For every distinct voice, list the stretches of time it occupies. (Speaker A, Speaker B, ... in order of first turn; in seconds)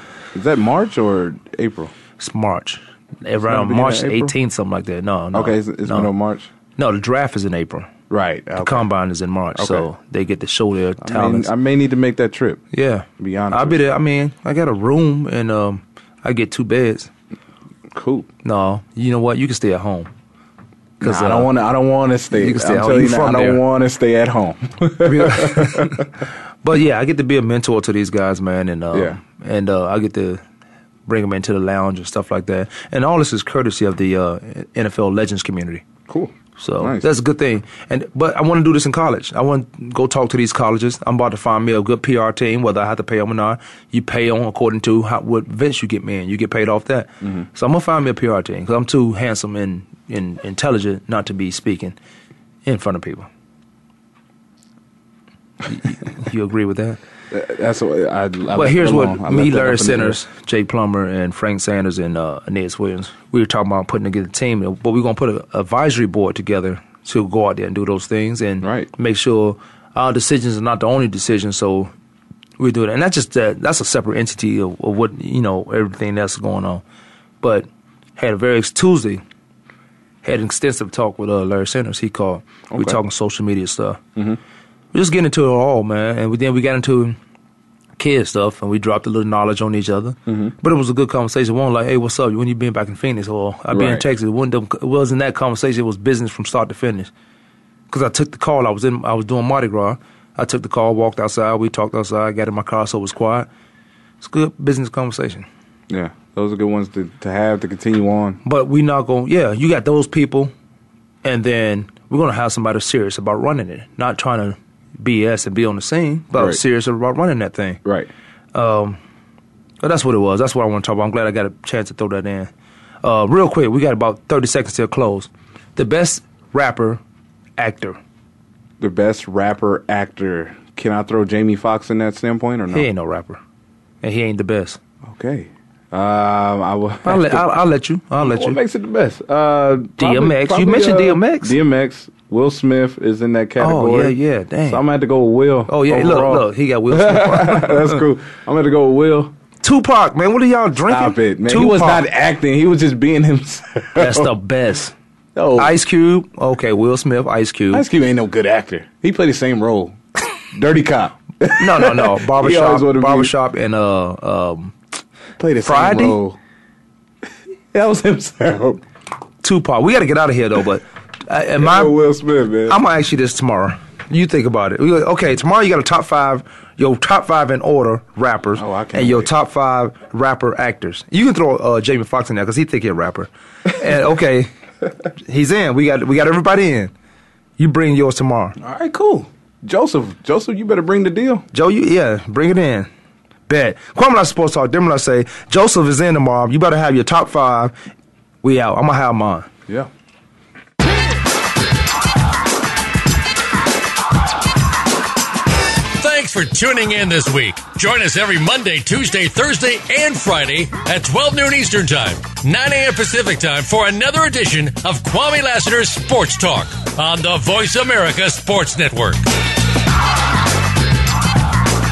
Speaker A: 0.3-1.9, 3.4-4.3, 5.3-6.5, 8.1-8.9, 9.6-9.9, 11.0-12.6, 13.2-13.9, 17.9-18.3, 21.0-26.1, 28.9-29.2, 36.1-37.1, 57.3-60.2, 68.6-68.9, 82.7-83.0, 90.3-90.5, 93.7-94.0, 105.9-108.4, 116.3-116.6, 117.8-118.1, 128.8-132.9, 135.0-137.5, 138.2-149.3, 150.9-154.3, 155.3-155.8, 157.7-160.0, 160.5-163.3, 165.4-166.4, 167.7-168.8, 171.6-172.8, 178.6-179.3, 188.6-191.4
Speaker B: 2.2-6.1, 6.8-7.9, 8.6-11.5, 12.7-17.1, 18.4-20.1, 21.0-21.5, 22.3-23.6, 25.0-26.0, 26.6-30.4, 31.1-35.9, 36.6-52.0, 52.6-53.3, 55.7-57.0, 58.5-71.9, 72.6-76.8, 77.4-79.2, 80.2-84.0, 84.9-87.2, 88.0-97.1, 97.9-103.5, 104.2-105.5, 108.4-110.5, 111.2-117.8, 118.5-119.0, 119.8-122.5, 123.0-127.0, 127.6-128.0, 132.7-133.4, 134.0-134.8, 137.0-138.6, 140.0-141.5, 143.6-144.8, 145.7-148.0, 149.6-152.0, 154.0-154.9, 155.6-157.8, 161.5-164.7, 165.6-166.2, 169.4-172.0, 172.7-184.5, 185.2-186.9, 187.6-188.6, 191.5-192.9, 193.5-197.7, 198.4-199.5
Speaker C: 205.9-219.2